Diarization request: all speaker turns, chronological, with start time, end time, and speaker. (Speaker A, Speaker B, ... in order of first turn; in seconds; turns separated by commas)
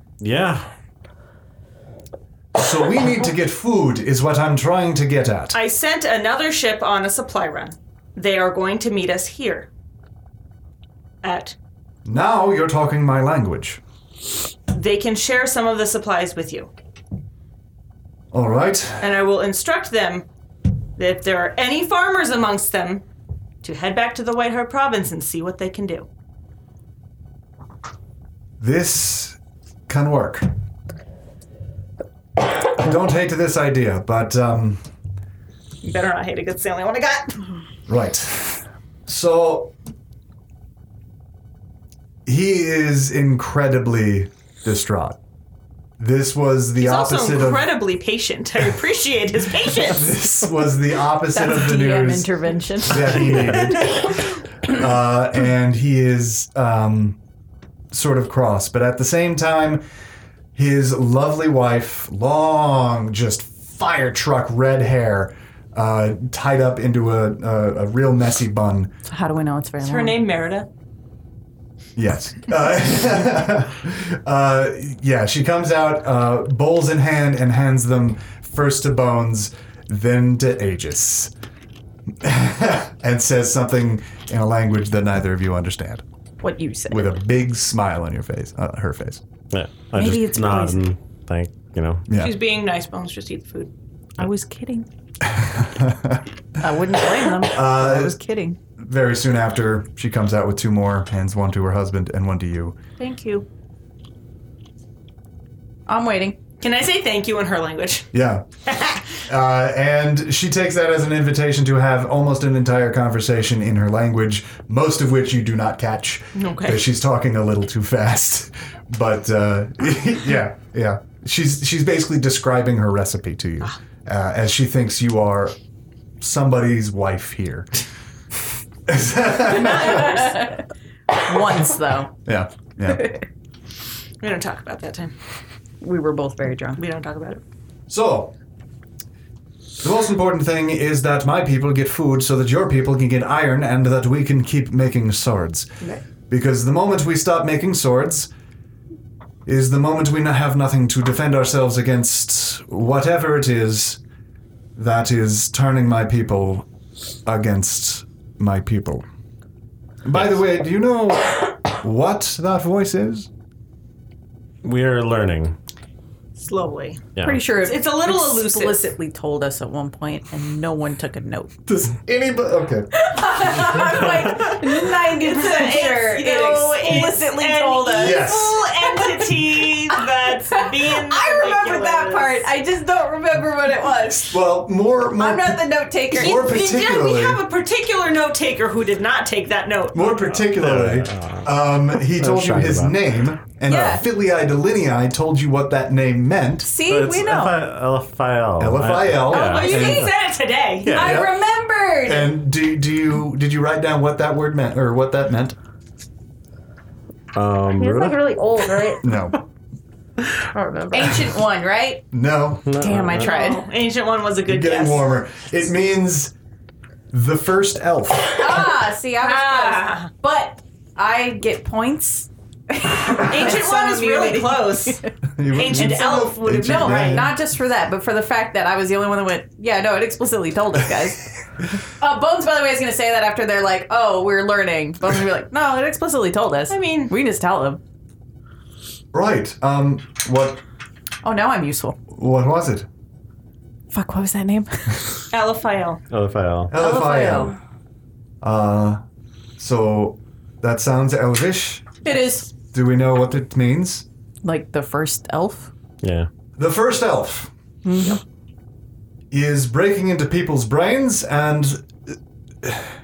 Speaker A: 0.2-0.7, Speaker B: 2.5-5.6, Speaker C: 5.5-9.7, Speaker C: 11.2-11.6, Speaker B: 12.0-13.8, Speaker C: 14.7-16.7, Speaker B: 18.3-19.1, Speaker C: 19.0-20.3, Speaker C: 21.0-23.0, Speaker C: 23.6-26.1, Speaker B: 28.6-30.5, Speaker B: 32.6-34.8, Speaker C: 35.8-37.5, Speaker B: 37.9-39.7, Speaker B: 42.2-45.2, Speaker B: 46.0-47.7, Speaker C: 46.8-50.1, Speaker B: 49.9-57.2, Speaker D: 51.3-53.5, Speaker B: 57.9-59.8, Speaker B: 60.5-68.9, Speaker D: 69.1-70.2, Speaker C: 69.8-70.7, Speaker B: 72.0-81.3, Speaker B: 82.2-86.0, Speaker D: 86.4-87.2, Speaker B: 86.9-89.2, Speaker A: 89.5-92.0, Speaker D: 89.9-90.8, Speaker B: 92.1-92.4, Speaker C: 92.1-93.7, Speaker D: 94.2-94.9, Speaker B: 95.2-96.2, Speaker D: 96.6-98.6, Speaker B: 97.4-98.2, Speaker B: 98.8-102.8, Speaker C: 103.0-103.5, Speaker D: 105.9-106.4, Speaker C: 106.6-108.1, Speaker B: 108.1-108.5, Speaker C: 108.7-109.2, Speaker B: 109.2-125.5, Speaker C: 116.3-116.8, Speaker B: 126.2-127.7, Speaker B: 128.8-130.2, Speaker D: 129.5-132.1, Speaker C: 129.7-130.1, Speaker B: 132.2-133.2, Speaker C: 134.2-135.1, Speaker D: 135.8-136.8, Speaker C: 136.8-137.4, Speaker B: 137.9-138.3, Speaker B: 139.8-145.7, Speaker B: 146.3-148.3, Speaker B: 149.4-154.0, Speaker B: 154.8-156.7, Speaker B: 157.2-159.0, Speaker B: 160.0-163.3, Speaker A: 164.6-165.6, Speaker C: 166.3-168.8, Speaker A: 167.2-167.4, Speaker D: 167.2-171.5, Speaker B: 171.7-172.9, Speaker D: 173.0-184.4, Speaker C: 175.2-182.4, Speaker B: 177.9-178.7, Speaker B: 184.2-187.4, Speaker D: 185.1-186.6, Speaker C: 186.1-190.4, Speaker B: 189.9-196.7, Speaker A: 190.5-193.0, Speaker D: 193.7-194.1, Speaker D: 196.6-197.6, Speaker A: 196.8-200.1, Speaker B: 198.6-200.1, Speaker C: 199.3-200.9, Speaker D: 199.3-200.1, Speaker A: 200.8-201.2, Speaker D: 200.9-202.3, Speaker B: 200.9-201.4, Speaker B: 202.0-205.6, Speaker A: 207.3-208.2, Speaker E: 207.7-209.1, Speaker B: 209.0-209.4, Speaker E: 210.5-211.1, Speaker D: 210.9-212.0, Speaker B: 212.1-212.7, Speaker A: 212.7-213.3, Speaker D: 212.8-213.6, Speaker C: 213.2-215.2, Speaker B: 214.4-216.3, Speaker B: 217.1-218.7, Speaker D: 218.4-225.0, Speaker C: 219.2-220.1, Speaker C: 223.2-225.0, Speaker B: 225.3-227.4, Speaker C: 225.5-227.2, Speaker D: 225.7-231.3, Speaker D: 232.0-237.8, Speaker C: 236.7-237.1, Speaker B: 239.1-240.6, Speaker D: 241.2-242.0, Speaker B: 242.1-242.9, Speaker D: 243.9-245.3, Speaker C: 245.3-246.0, Speaker A: 246.1-246.7, Speaker B: 246.7-247.5, Speaker D: 246.7-247.6, Speaker B: 248.4-249.0, Speaker B: 249.6-254.0, Speaker D: 252.0-252.5, Speaker D: 254.4-255.7, Speaker A: 256.0-256.3, Speaker B: 256.6-257.5, Speaker D: 257.8-258.2, Speaker B: 259.3-262.9